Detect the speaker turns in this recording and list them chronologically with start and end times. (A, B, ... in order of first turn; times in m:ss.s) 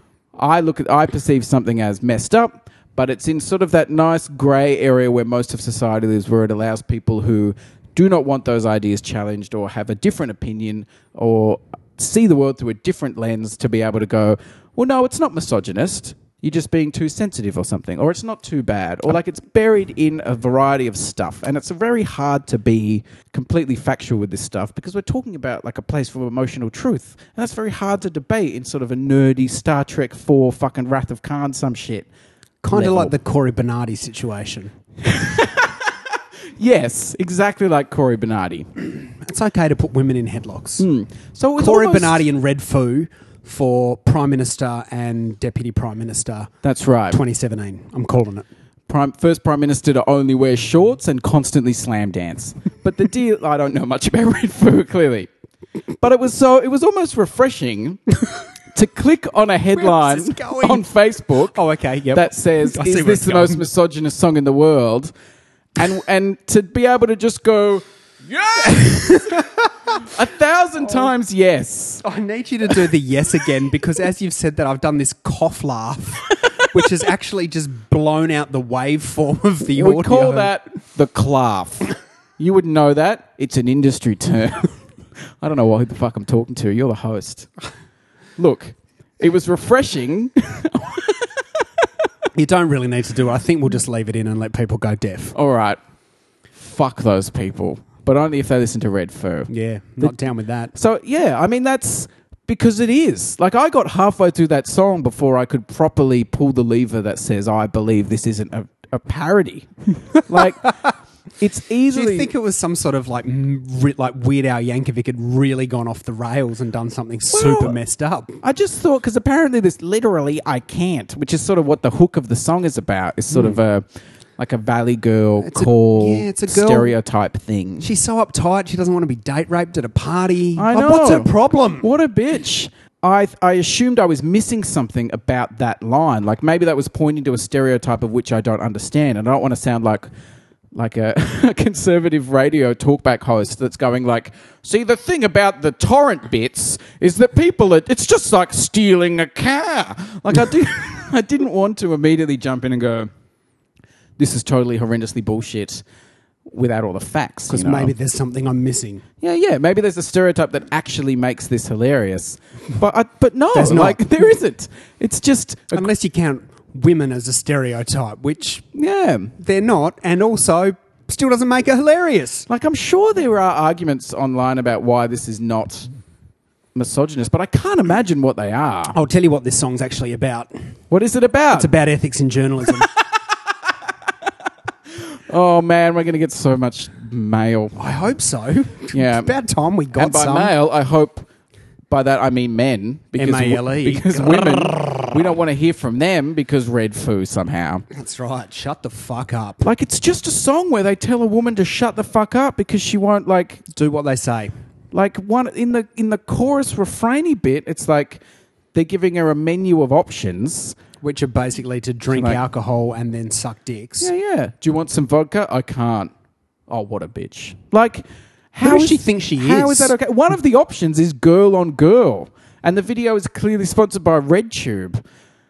0:00.4-0:32.1 A
0:32.6-0:34.7 B
0:32.7-0:33.1 A
0:35.0-0:35.9 A
0:36.6-0:38.7 A
0:39.1-0:40.9 B
0:40.8-0:42.2 A
0:41.6-0:46.5 B
0:46.6-0:47.2 A
0:47.1-0:48.4 B
0:48.9-0:55.3 A
0:56.0-0:58.0 A
0:58.7-1:01.6 A
0:59.7-1:00.8 B
1:01.5-1:03.6 B
1:02.1-1:05.1 A
1:05.8-1:12.0 A
1:08.6-1:09.7 B
1:12.0-1:20.5 B
1:19.7-1:24.7 A
1:25.4-1:27.5 A
1:28.4-1:31.3 A
1:32.3-1:35.3 B
1:35.3-1:35.8 A
1:36.6-1:39.5 A
1:39.5-1:40.7 B
1:40.7-1:50.8 A
1:51.4-1:52.3 A
1:51.9-1:58.4 B
1:57.3-1:57.8 A
1:58.4-2:03.8 A
2:03.3-2:03.6 B
2:04.4-2:07.9 A
2:05.4-2:06.9 B
2:07.8-2:11.9 B
2:10.6-2:11.3 A
2:11.8-2:20.1 A
2:20.7-2:33.1 A
2:34.2-2:35.8 A
2:36.5-2:37.9 A
2:37.5-2:39.0 B
2:39.2-2:45.8 A
2:43.5-2:44.3 B
2:45.7-2:48.6 B
2:48.7-2:49.3 A
2:49.4-2:52.5 B
2:52.5-2:55.9 A
2:56.7-2:59.0 A
2:58.9-3:00.5 B
3:00.9-3:01.7 A
3:01.5-3:02.9 B
3:05.3-3:07.8 A
3:07.8-3:10.5 B
3:08.9-3:09.3 A
3:09.9-3:11.3 A
3:11.9-3:17.8 A
3:13.2-3:15.1 B
3:17.9-3:19.6 B
3:19.6-3:23.6 A
3:23.7-3:24.5 B
3:24.9-3:28.2 A
3:28.7-3:30.8 A
3:31.0-3:34.1 B
3:32.1-3:32.4 A
3:34.0-3:36.1 A
3:36.7-3:45.0 A
3:38.6-3:39.9 B